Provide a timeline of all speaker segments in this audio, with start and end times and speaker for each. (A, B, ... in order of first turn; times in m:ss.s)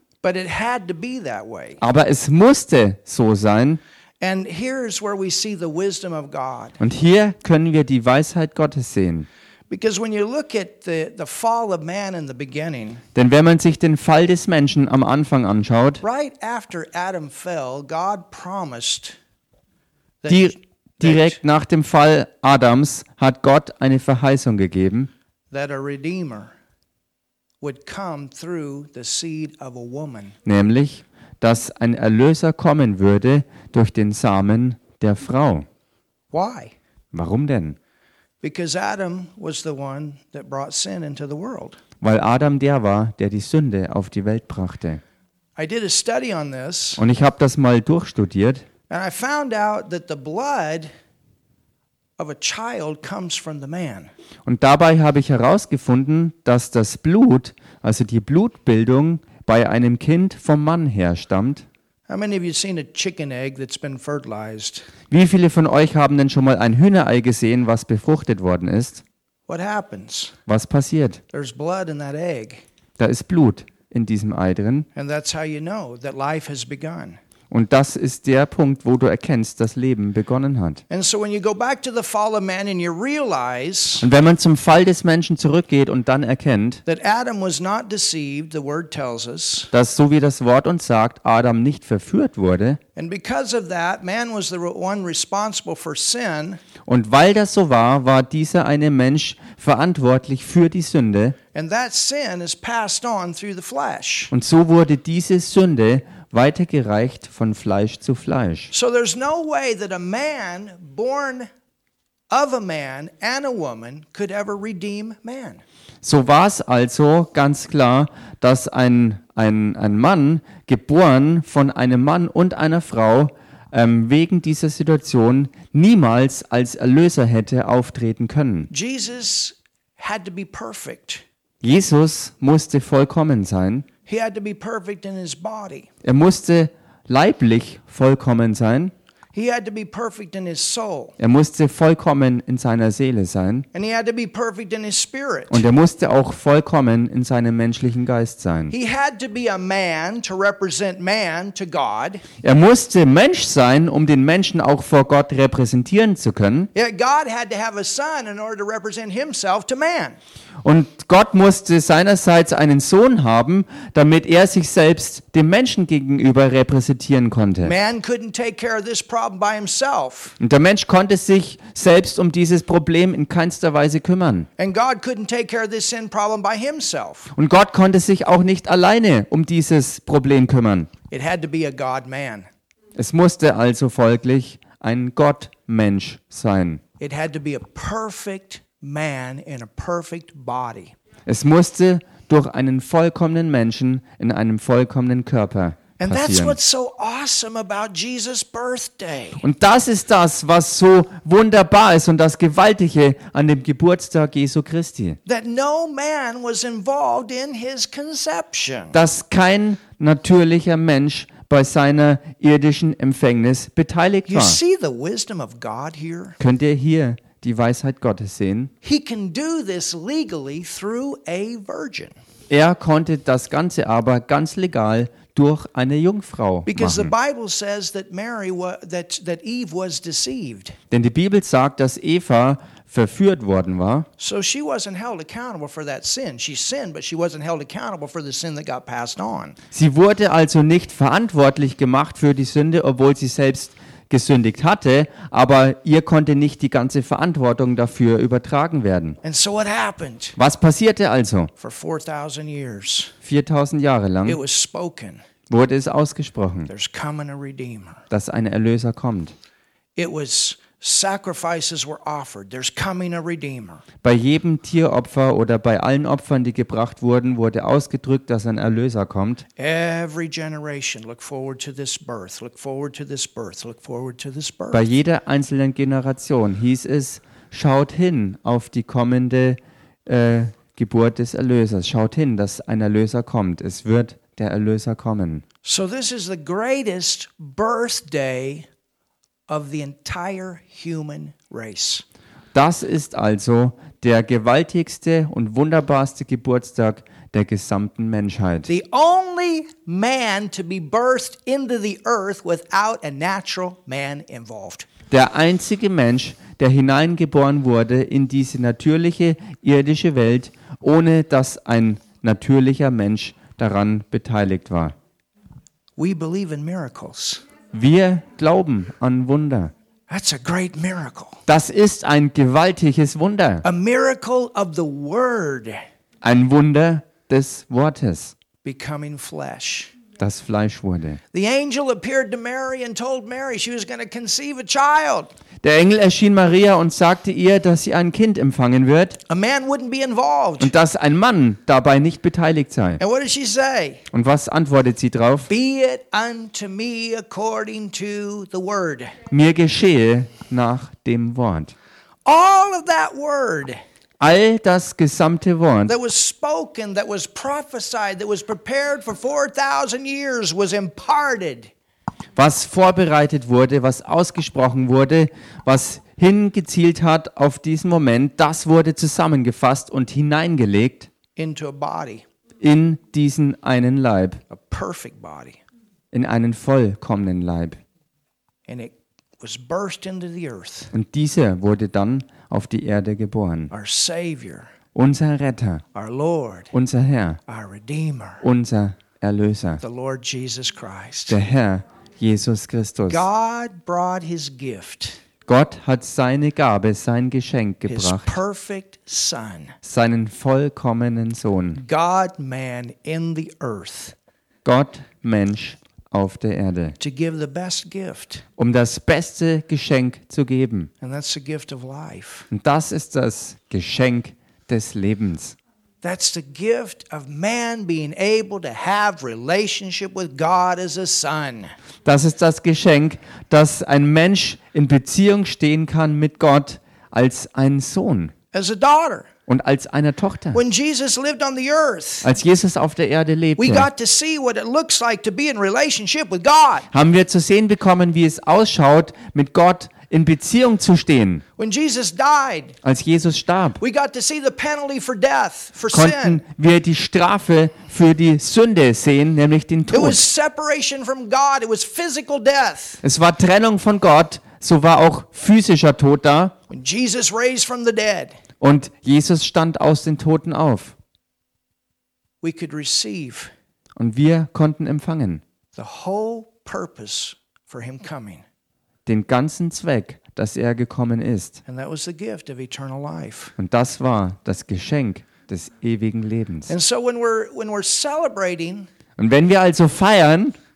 0:00.2-0:01.8 A
0:01.8-0:03.8 B
0:04.2-0:06.8 A
0:06.8-0:09.3 B
0:09.7-0:13.0 A
0:13.2-0:16.0 B
0:16.0-0:19.2 A
0:20.2-0:21.4 A
0:20.3-0:25.1 B
0:25.5-0:26.5 A
0:27.6-0:30.4 A
0:30.4-0:35.7 B
0:36.3-0:36.7 A
0:37.1-0:37.8 B
0:38.4-0:41.8 A
0:42.0-0:45.0 B
0:45.6-0:47.0 A
0:47.0-0:48.6 B
0:48.9-0:50.9 A
0:52.2-0:54.1 A
0:54.5-1:01.7 B
1:02.1-1:04.9 A
1:05.1-1:09.0 B
1:09.5-1:10.4 A
1:10.5-1:11.2 B
1:11.3-1:12.6 A
1:13.0-1:14.9 B
1:15.0-1:17.2 A
1:17.5-1:20.8 B
1:20.9-1:24.1 A
1:24.0-1:26.8 B
1:26.9-1:29.7 A
1:29.7-1:32.8 B
1:33.0-1:36.6 A
1:36.9-1:41.4 B
1:41.5-1:44.3 A
1:44.3-1:48.7 B
1:48.7-1:51.5 A
1:52.3-1:55.6 A
1:56.0-2:08.7 B
2:08.7-2:11.2 A
2:11.6-2:13.9 B
2:14.1-2:15.9 A
2:16.0-2:18.9 B
2:19.3-2:21.2 A
2:21.2-2:23.7 B
2:23.7-2:25.6 A
2:25.5-2:28.7 B
2:28.7-2:32.2 A
2:32.4-2:36.7 B
2:36.8-2:40.2 A
2:40.6-2:47.7 B
2:47.6-2:50.4 A
2:50.4-2:54.5 B
2:54.6-2:57.3 A
2:57.4-3:00.9 B
3:01.1-3:02.5 A
3:03.0-3:06.8 B
3:07.0-3:11.0 A
3:11.3-3:16.6 B
3:16.0-3:19.4 A
3:19.4-3:25.2 B
3:25.3-3:29.0 A
3:28.9-3:34.6 B
3:34.3-3:36.4 A
3:36.4-3:38.7 B
3:38.8-3:42.2 A
3:42.5-3:47.1 B
3:46.7-3:50.8 A
3:50.9-3:54.1 B
3:54.2-3:59.6 A
3:59.7-4:09.2 B
4:09.2-4:10.4 A
4:10.4-4:11.5 B
4:11.6-4:13.1 A
4:13.2-4:14.4 B
4:14.3-4:15.2 A
4:15.5-4:16.7 B
4:16.7-4:18.0 A
4:18.1-4:19.3 B
4:20.0-4:23.8 A
4:24.0-4:29.4 B
4:29.6-4:34.8 A
4:34.7-4:45.4 B
4:45.6-4:48.7 A
4:49.5-4:52.0 A
4:52.5-4:58.7 B
4:58.7-5:04.9 A
5:05.1-5:14.9 B
5:16.0-5:17.4 A
5:17.7-5:19.7 B
5:20.1-5:21.4 A
5:21.5-5:23.6 B
5:23.6-5:25.8 A
5:26.2-5:28.3 B
5:28.6-5:29.9 A
5:30.2-5:31.2 B
5:31.3-5:35.3 A
5:35.6-5:39.2 B
5:39.3-5:40.7 A
5:40.6-5:43.0 B
5:43.0-5:44.0 A
5:44.1-5:45.5 B
5:45.5-5:49.1 A
5:49.3-5:51.7 B
5:52.3-5:53.8 A
5:54.2-5:55.9 B
5:55.9-6:01.7 A
6:02.4-6:11.1 B
6:11.4-6:12.2 A
6:12.6-6:14.4 B
6:14.5-6:15.6 A
6:16.1-6:17.8 B
6:18.7-6:20.9 A
6:20.9-6:23.7 B
6:23.7-6:24.7 A
6:25.0-6:25.8 B
6:25.9-6:26.7 A
6:26.7-6:27.4 B
6:27.5-6:28.4 A
6:28.4-6:29.8 B
6:29.8-6:31.4 A
6:31.3-6:33.2 B
6:33.1-6:35.2 A
6:35.5-6:38.3 B
6:37.9-6:39.8 A
6:39.8-6:41.8 B
6:41.8-6:44.2 A
6:44.6-6:47.0 B
6:47.0-6:48.4 A
6:48.6-6:50.9 B
6:51.0-6:52.5 A
6:52.5-6:55.6 B
6:56.0-7:01.7 A
7:02.0-7:08.3 B
7:08.5-7:09.3 A
7:09.5-7:10.6 B
7:10.5-7:12.3 A
7:12.2-7:13.9 B
7:13.6-7:16.9 A
7:16.9-7:21.4 B
7:21.6-7:22.8 A
7:22.8-7:23.8 B
7:23.8-7:26.4 A
7:25.9-7:30.2 B
7:29.9-7:33.0 A
7:33.0-7:36.5 B
7:36.7-7:38.4 A
7:38.6-7:41.0 B
7:42.4-7:43.5 A
7:44.0-7:45.4 B
7:45.8-7:48.4 A
7:49.1-7:51.6 B
7:51.7-7:53.6 A
7:53.6-7:56.7 B
7:56.7-7:58.9 A
7:59.2-8:00.6 B